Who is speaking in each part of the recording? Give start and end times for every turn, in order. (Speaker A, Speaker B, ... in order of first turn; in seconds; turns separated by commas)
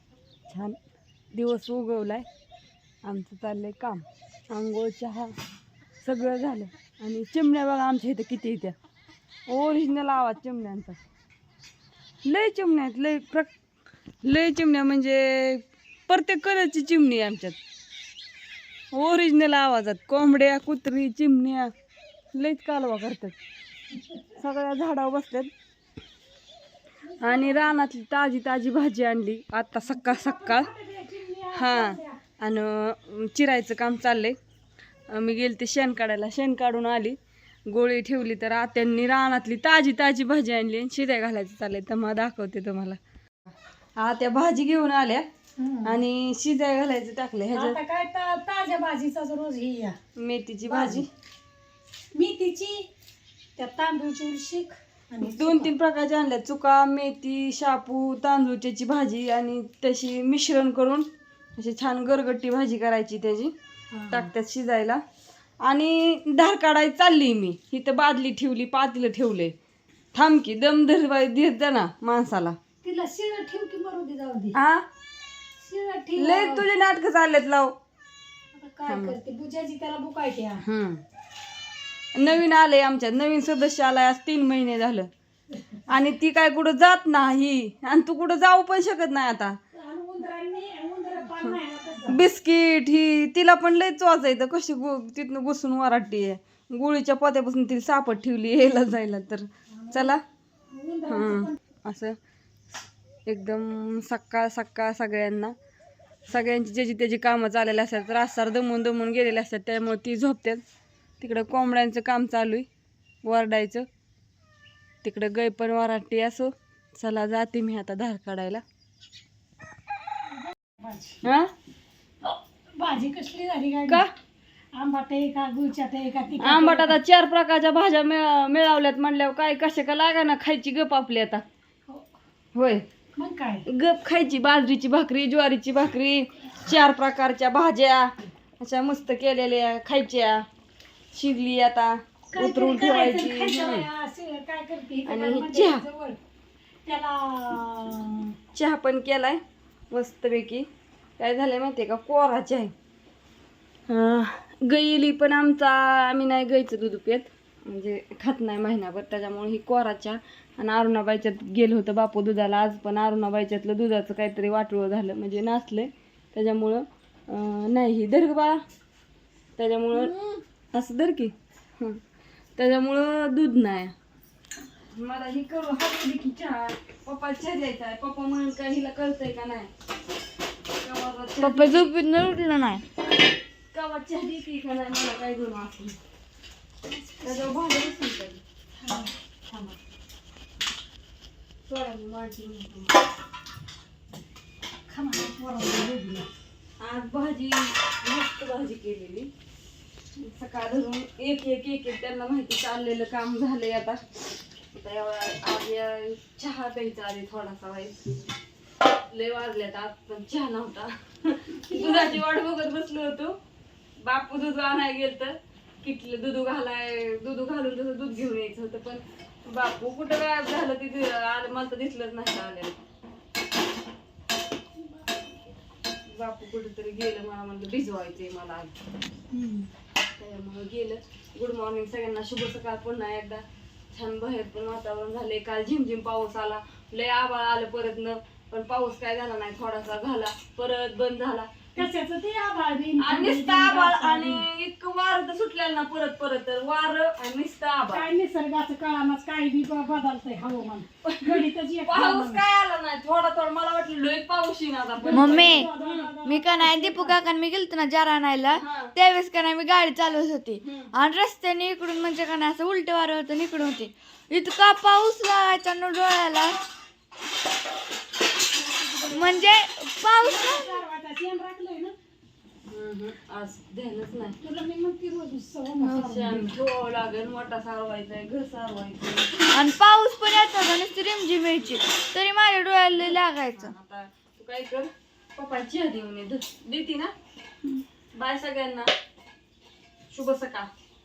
Speaker A: 0.5-0.8, Speaker A: 1.3-2.3, Speaker A: 3.0-5.3, Speaker A: 6.0-8.8, Speaker A: 9.5-11.0, Speaker A: 12.2-13.5, Speaker A: 14.2-17.6, Speaker A: 18.9-21.7, Speaker A: 22.3-23.4, Speaker A: 24.4-25.5, Speaker B: 27.1-27.7, Speaker A: 27.2-30.7, Speaker B: 29.8-32.2, Speaker A: 31.5-34.4, Speaker A: 35.1-37.2, Speaker A: 37.7-43.0, Speaker A: 44.0-45.2, Speaker B: 45.6-46.0, Speaker A: 45.9-47.8, Speaker B: 47.5-50.0, Speaker A: 50.2-51.1, Speaker B: 50.7-51.0, Speaker B: 52.1-52.9, Speaker B: 53.6-55.7, Speaker A: 55.2-63.5, Speaker B: 63.9-64.3, Speaker A: 64.1-65.0, Speaker A: 65.6-69.5, Speaker A: 70.2-72.6, Speaker B: 72.8-74.6, Speaker A: 74.5-74.8, Speaker B: 75.6-76.7, Speaker A: 76.2-77.7, Speaker B: 78.6-80.6, Speaker A: 78.9-79.2, Speaker A: 80.6-81.0, Speaker A: 82.2-85.1, Speaker A: 85.9-89.6, Speaker B: 89.7-92.2, Speaker A: 92.1-100.2, Speaker B: 99.9-100.2, Speaker B: 100.7-101.6, Speaker A: 101.1-102.2, Speaker A: 103.3-105.5, Speaker A: 106.3-110.6, Speaker A: 111.2-112.7, Speaker A: 113.2-113.9, Speaker A: 115.0-118.6, Speaker B: 120.5-121.2, Speaker A: 121.2-121.5, Speaker B: 122.2-124.0, Speaker B: 124.7-127.0, Speaker A: 126.4-131.4, Speaker A: 132.6-132.8, Speaker B: 133.2-133.7, Speaker A: 133.7-140.4, Speaker A: 141.1-143.9, Speaker B: 142.3-146.2, Speaker A: 145.1-145.8, Speaker B: 146.8-148.3, Speaker A: 148.5-150.7, Speaker A: 151.2-152.7, Speaker A: 153.9-168.6, Speaker A: 169.6-170.1, Speaker A: 170.7-172.0, Speaker A: 172.6-173.9, Speaker A: 174.9-179.7, Speaker A: 180.8-181.9, Speaker C: 181.4-182.8, Speaker A: 183.7-186.0, Speaker B: 187.1-187.6, Speaker A: 187.2-188.4, Speaker B: 188.8-189.1, Speaker A: 189.5-189.8, Speaker A: 191.7-193.0, Speaker B: 194.9-196.3, Speaker A: 196.8-199.3, Speaker A: 200.2-204.2, Speaker A: 204.7-208.1, Speaker A: 209.1-213.4, Speaker B: 211.7-212.2, Speaker A: 214.0-222.8, Speaker B: 224.8-225.3, Speaker A: 226.1-228.7, Speaker B: 229.3-229.7, Speaker A: 230.2-241.8, Speaker B: 241.8-244.5, Speaker A: 243.0-248.1, Speaker B: 247.9-252.4, Speaker A: 251.0-256.1, Speaker B: 255.0-257.2, Speaker C: 255.1-255.7, Speaker C: 256.2-266.6, Speaker A: 258.5-258.9, Speaker A: 260.6-260.9, Speaker B: 269.1-269.3, Speaker C: 269.1-270.8, Speaker B: 270.2-271.9, Speaker A: 272.7-274.4, Speaker B: 274.4-276.5, Speaker C: 275.8-276.4, Speaker A: 276.0-279.3, Speaker C: 279.5-283.7, Speaker A: 283.0-287.1, Speaker A: 288.1-288.9, Speaker A: 290.1-290.7